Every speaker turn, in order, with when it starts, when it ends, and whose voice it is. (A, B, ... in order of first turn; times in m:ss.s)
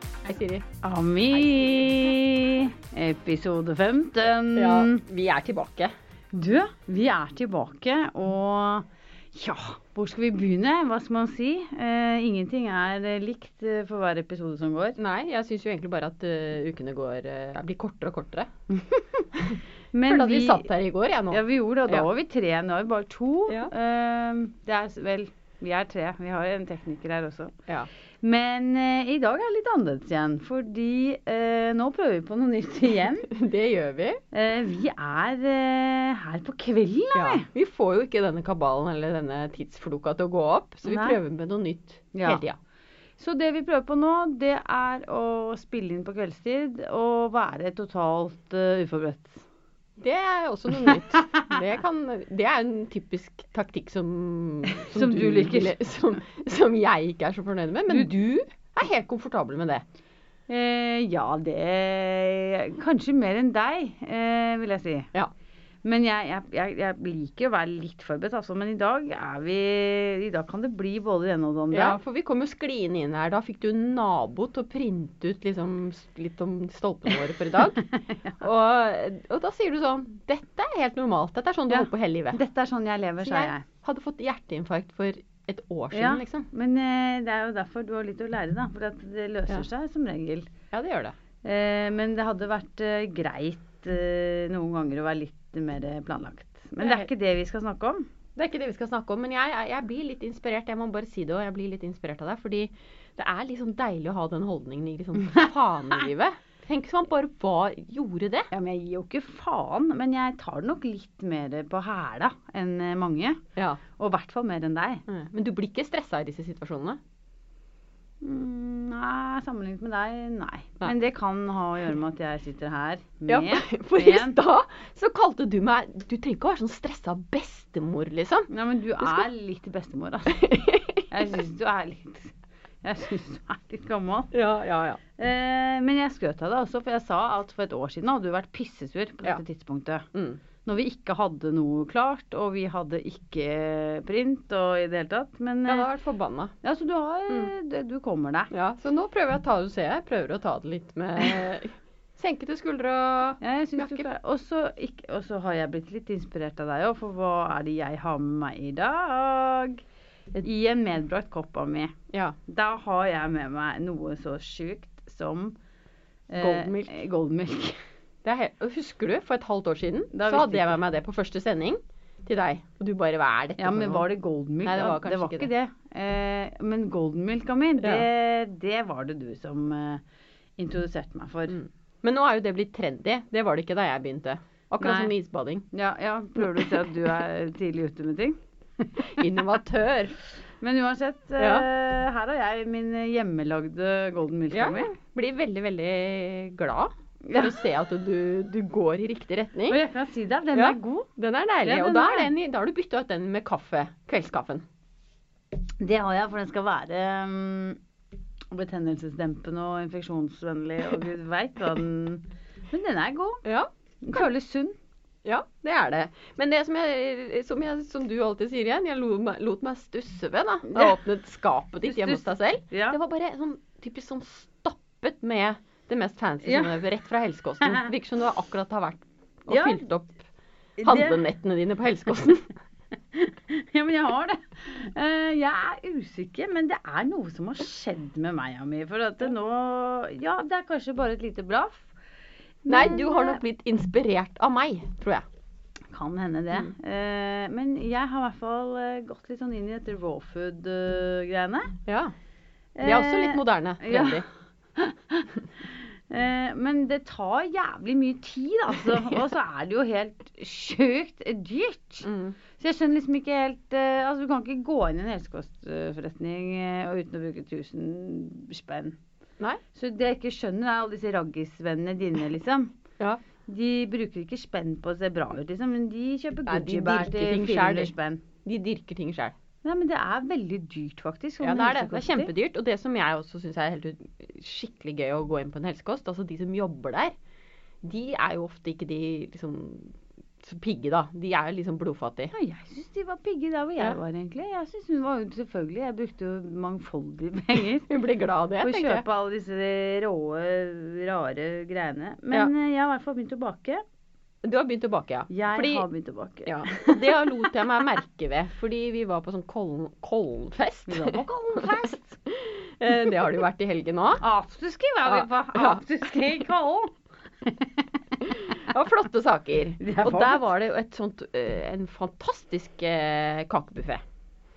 0:00.2-0:00.7 A
0:00.8-0:05.0 B
0:04.5-0:05.9 A
0:06.3-0:15.0 B
0:15.0-0:18.5 A
0:18.7-0:20.7 B
0:19.5-0:22.1 A
0:21.3-0:27.6 B
0:28.2-0:33.3 B
0:33.2-0:34.2 A
0:34.3-0:37.4 B
0:37.1-0:42.6 A
0:40.8-0:41.2 B
0:42.1-0:42.4 B
0:43.2-0:49.4 B
0:50.0-0:59.8 A
0:50.8-0:51.6 B
0:54.8-0:55.8 B
1:00.5-1:05.1 B
1:05.8-1:12.0 B
1:11.7-1:22.4 A
1:21.7-1:23.6 B
1:23.2-1:26.5 A
1:25.9-1:30.5 B
1:30.7-1:31.2 A
1:31.4-1:38.0 B
1:36.8-1:37.1 A
1:38.4-1:48.5 A
1:48.5-1:53.4 B
1:53.6-1:53.8 A
1:53.9-1:55.0 B
1:55.1-1:57.0 A
1:58.2-2:04.4 B
2:03.3-2:09.3 A
2:08.5-2:10.4 B
2:10.3-2:11.1 A
2:11.1-2:14.3 B
2:14.3-2:15.0 A
2:15.2-2:20.0 B
2:20.1-2:20.4 A
2:20.6-2:25.9 B
2:25.6-2:26.5 A
2:26.6-2:28.5 B
2:28.5-2:34.1 A
2:33.4-2:39.8 B
2:40.4-2:41.9 B
2:42.1-2:42.4 A
2:42.5-2:45.5 B
2:46.3-2:47.8 B
2:46.4-2:47.0 A
2:48.2-2:54.1 A
2:50.1-2:50.8 B
2:53.6-3:00.0 B
2:54.6-2:55.5 A
2:57.8-2:58.1 A
3:00.6-3:01.6 B
3:01.5-3:05.7 A
3:04.8-3:05.1 B
3:05.7-3:08.9 B
3:06.4-3:06.8 A
3:09.0-3:10.2 A
3:10.6-3:14.9 B
3:11.4-3:11.7 A
3:14.5-3:19.8 A
3:19.7-3:21.1 B
3:20.5-3:24.6 A
3:21.6-3:22.3 B
3:25.8-3:27.8 B
3:28.5-3:33.4 B
3:33.4-3:34.2 A
3:34.0-3:34.8 B
3:35.2-3:50.2 A
3:40.7-3:41.0 B
3:41.9-3:43.0 B
3:46.4-3:46.8 B
3:47.6-3:47.9 B
3:49.5-3:49.8 B
3:50.8-3:51.2 B
3:50.8-3:52.5 A
3:53.1-4:01.9 B
4:02.6-4:03.4 B
4:02.7-4:05.2 A
4:05.9-4:11.7 B
4:11.9-4:12.1 A
4:12.8-4:14.2 B
4:12.8-4:14.2 A
4:14.7-4:29.0 B
4:22.0-4:22.4 A
4:29.7-4:32.7 B
4:33.4-4:38.2 B
4:36.5-4:37.9 A
4:38.4-4:39.3 A
4:39.6-4:42.3 B
4:41.4-4:47.1 A
4:47.8-4:52.3 A
4:52.3-4:57.9 B
4:57.9-4:59.0 A
4:58.6-5:03.8 B
5:04.4-5:05.9 A
5:05.3-5:07.5 B
5:06.4-5:11.7 A
5:10.9-5:12.2 B
5:12.3-5:14.2 A
5:14.2-5:17.9 B
5:15.0-5:15.8 A
5:18.2-5:24.0 A
5:19.8-5:20.5 B